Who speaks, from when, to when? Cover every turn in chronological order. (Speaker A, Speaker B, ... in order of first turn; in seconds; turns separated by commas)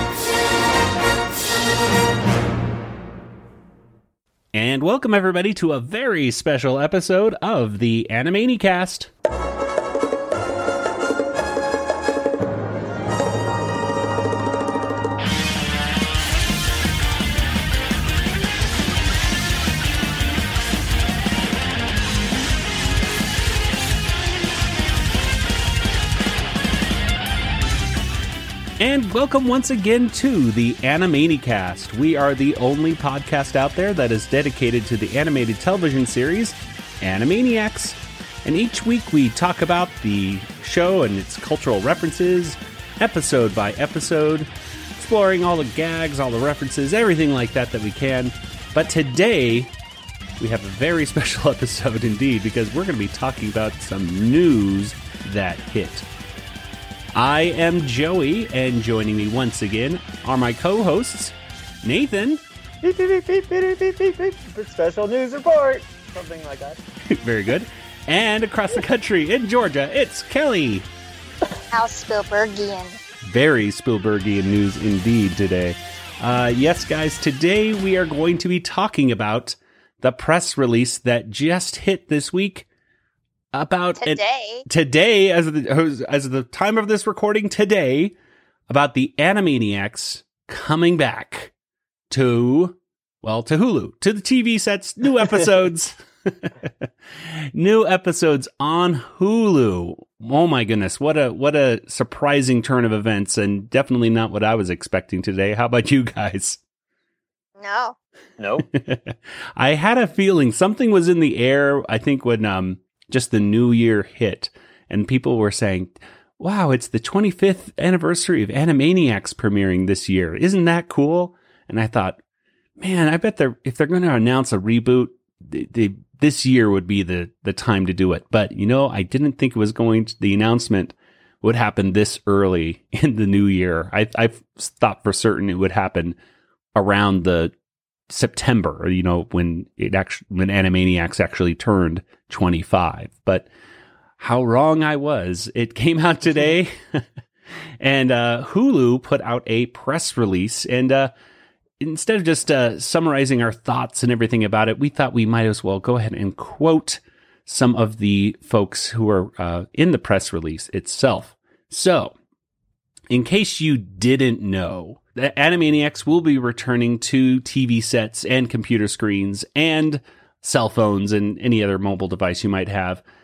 Speaker A: 4.5-9.1, Speaker A: 28.8-49.7, Speaker A: 50.4-56.1, Speaker A: 57.1-62.4, Speaker B: 62.8-66.8, Speaker A: 67.1-70.9, Speaker C: 71.7-73.0, Speaker A: 73.2-82.7, Speaker A: 83.5-88.2, Speaker C: 84.0-84.7, Speaker A: 88.7-91.5, Speaker A: 92.1-106.6, Speaker C: 107.6-108.0, Speaker B: 108.4-108.7, Speaker A: 108.7-122.2, Speaker A: 122.8-136.2, Speaker A: 136.8-137.5, Speaker A: 138.1-143.5, Speaker A: 144.2-147.0, Speaker A: 147.8-151.1, Speaker A: 151.8-162.1, Speaker A: 163.1-173.0